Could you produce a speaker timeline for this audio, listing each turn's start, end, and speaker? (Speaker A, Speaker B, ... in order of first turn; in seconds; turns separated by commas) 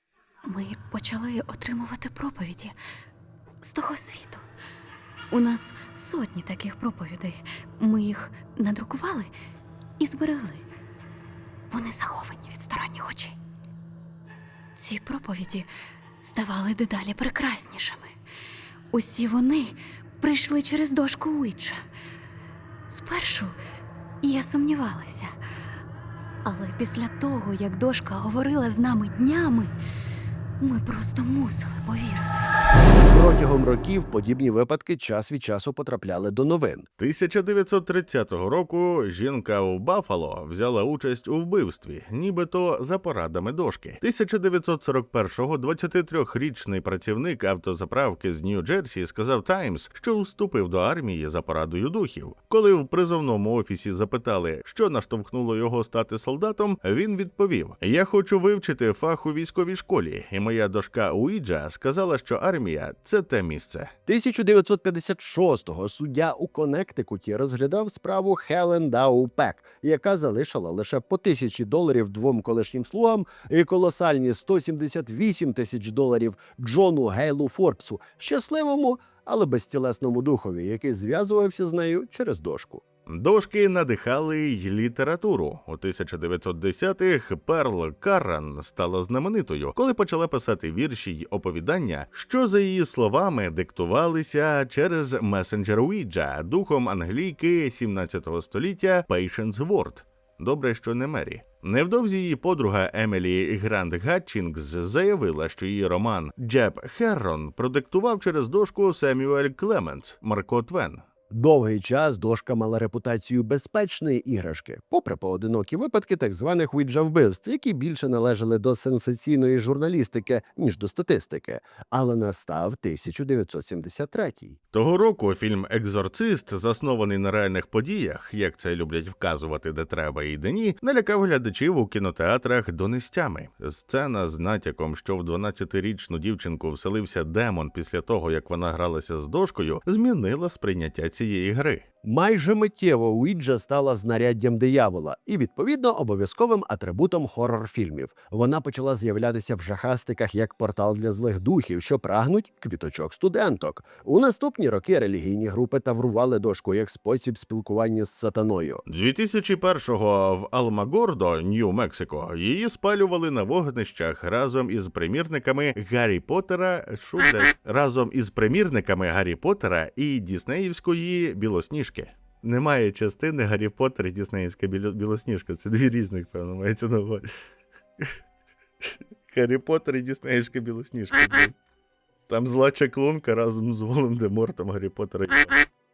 Speaker A: 0.5-2.8, Speaker A: 3.6-4.5, Speaker A: 5.3-9.3, Speaker A: 10.0-10.7, Speaker A: 11.7-13.4, Speaker A: 14.8-15.7, Speaker A: 16.2-18.1, Speaker A: 18.9-21.8, Speaker A: 22.9-23.6, Speaker A: 24.2-25.3, Speaker A: 26.4-29.8, Speaker A: 30.6-32.5, Speaker B: 33.0-36.9, Speaker C: 37.0-63.9, Speaker B: 64.1-82.8, Speaker C: 83.1-111.0, Speaker B: 111.3-124.6, Speaker C: 124.7-141.8, Speaker B: 142.0-158.8, Speaker C: 158.9-177.3, Speaker C: 178.8-181.5, Speaker C: 182.3-185.7